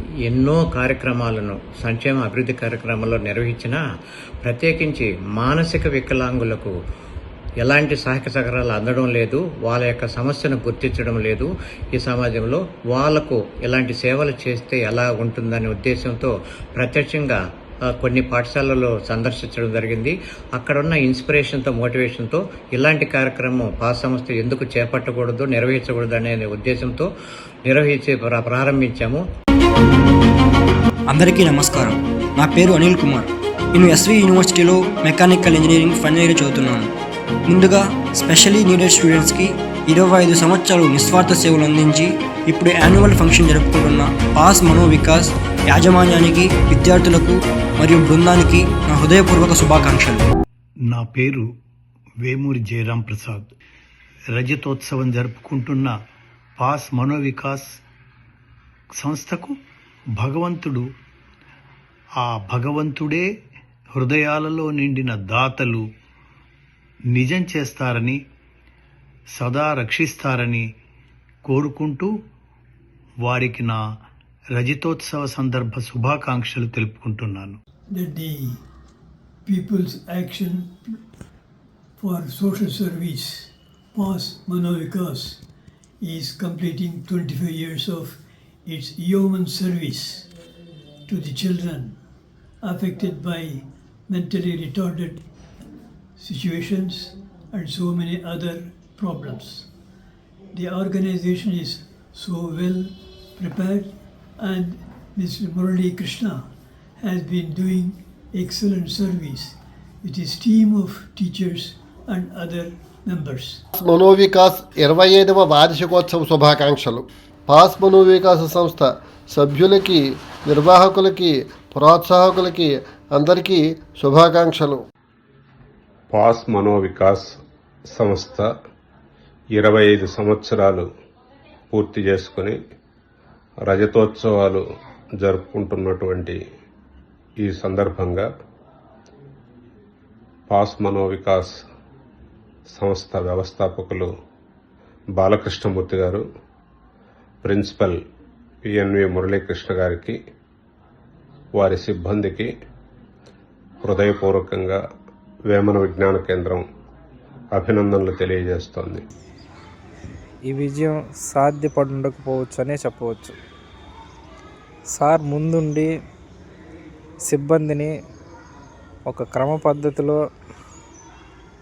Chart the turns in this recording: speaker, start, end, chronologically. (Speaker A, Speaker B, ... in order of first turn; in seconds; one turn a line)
Speaker A: 0.3-3.8
Speaker A: 4.4-6.7
Speaker A: 7.6-27.1
Speaker A: 27.6-29.2
Speaker B: 31.1-36.9
Speaker B: 37.5-50.2
Speaker C: 50.9-51.5
Speaker C: 52.2-53.5
Speaker C: 54.3-56.0
Speaker C: 56.6-57.8
Speaker C: 59.0-59.6
Speaker C: 60.2-60.9
Speaker C: 62.2-63.3
Speaker C: 63.9-65.9
Speaker C: 67.1-68.2
Speaker C: 69.3-70.6
Speaker C: 71.5-72.1
Speaker C: 73.2-73.8
Speaker C: 74.6-77.6
Speaker D: 77.9-78.6
Speaker D: 79.5-81.0
Speaker D: 82.0-85.4
Speaker D: 86.0-90.3
Speaker D: 91.1-92.0
Speaker D: 92.6-95.2
Speaker D: 96.2-99.7
Speaker D: 100.5-106.5
Speaker D: 107.0-113.6
Speaker E: 113.8-124.8
Speaker F: 126.1-127.3
Speaker F: 127.9-128.5
Speaker F: 129.6-130.9
Speaker F: 131.7-132.6
Speaker F: 133.6-134.7
Speaker F: 135.2-136.4
Speaker F: 137.4-138.3
Speaker F: 140.5-141.6
Speaker F: 142.7-144.1
Speaker F: 145.2-146.3
Speaker F: 147.4-148.0
Speaker F: 148.6-150.2
Speaker F: 151.5-152.5
Speaker F: 153.8-154.8
Speaker F: 155.5-156.7
Speaker F: 157.5-159.0
Speaker G: 160.5-163.3
Speaker G: 164.9-165.9
Speaker G: 167.2-167.9
Speaker G: 169.1-170.2